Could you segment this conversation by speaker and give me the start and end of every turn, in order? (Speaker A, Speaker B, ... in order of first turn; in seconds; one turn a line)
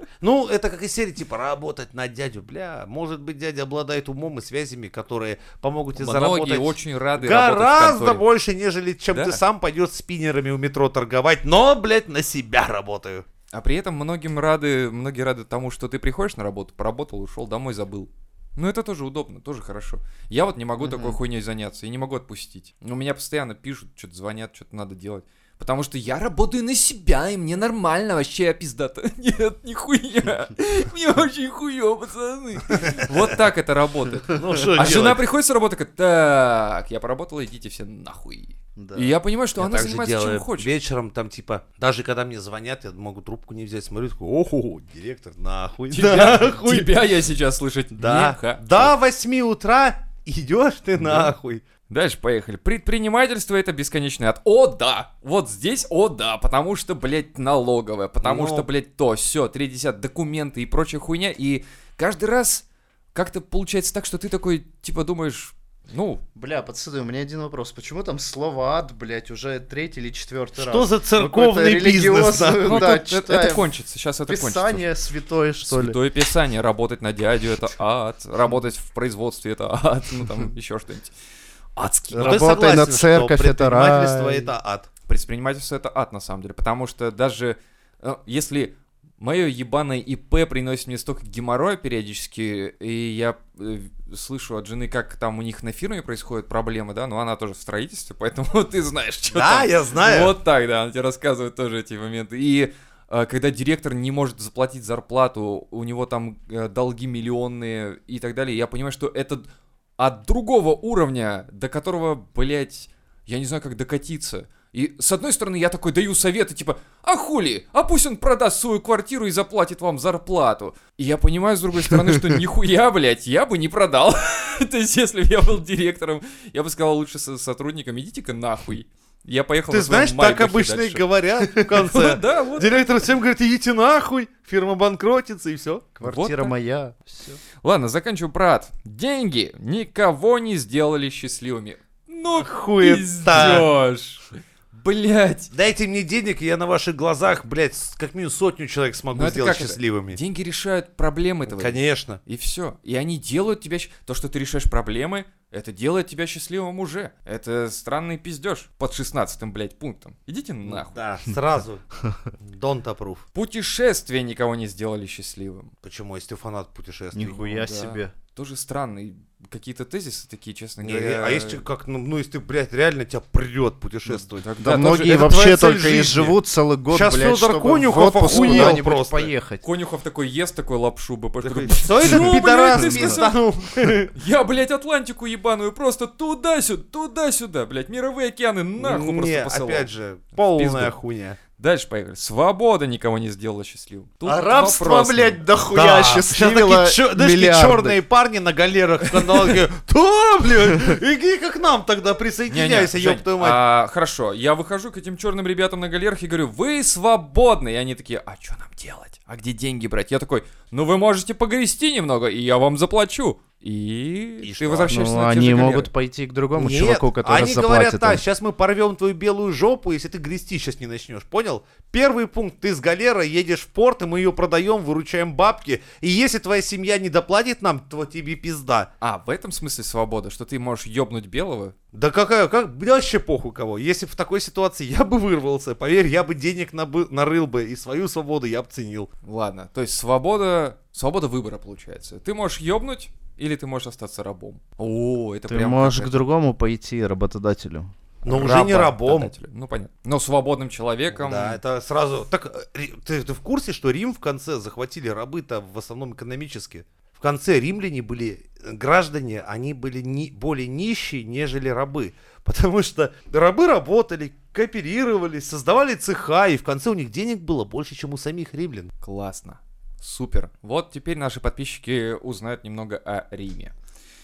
Speaker A: 0.2-13.2
Speaker B: 6.0-8.2
Speaker B: 9.1-9.4
Speaker B: 13.5-40.7
Speaker C: 20.8-21.2
Speaker A: 34.3-35.2
Speaker C: 38.8-39.1
Speaker A: 39.6-46.9
Speaker B: 45.9-48.9
Speaker A: 48.0-51.6
Speaker B: 51.0-51.3
Speaker B: 51.9-66.2
Speaker A: 58.2-58.7
Speaker C: 66.4-73.7
Speaker A: 70.6-72.9
Speaker B: 72.6-74.8
Speaker C: 74.3-76.0
Speaker B: 75.6-81.1
Speaker B: 81.8-82.4
Speaker A: 82.1-84.9
Speaker C: 82.1-84.5
Speaker B: 85.1-131.1
Speaker A: 99.3-100.3
Speaker A: 129.7-135.8
Speaker B: 131.7-132.8
Speaker C: 136.0-137.4
Speaker B: 136.0-136.5
Speaker B: 137.6-145.5
Speaker A: 142.3-143.7
Speaker A: 145.5-150.2
Speaker B: 149.1-161.0
Speaker A: 151.4-152.2
Speaker A: 160.6-161.8
Speaker A: 162.4-163.2
Speaker B: 163.3-165.7
Speaker A: 165.8-167.6
Speaker C: 167.1-168.1
Speaker B: 167.6-171.6
Speaker A: 170.8-176.4
Speaker B: 174.1-175.2
Speaker C: 174.6-179.6
Speaker A: 176.9-179.3
Speaker B: 178.2-178.8
Speaker B: 179.6-183.4
Speaker A: 181.4-184.1
Speaker C: 182.0-183.2
Speaker B: 184.1-190.9
Speaker A: 188.8-191.4
Speaker B: 191.6-195.4
Speaker C: 194.3-198.0
Speaker A: 195.7-203.6
Speaker B: 202.5-215.9
Speaker A: 214.4-215.1
Speaker C: 214.9-218.2
Speaker A: 216.6-228.9
Speaker B: 229.0-231.8
Speaker A: 231.9-239.1
Speaker B: 239.2-246.2
Speaker C: 245.5-247.9
Speaker A: 248.2-249.3
Speaker B: 248.3-251.6
Speaker A: 251.1-268.9
Speaker B: 269.0-273.7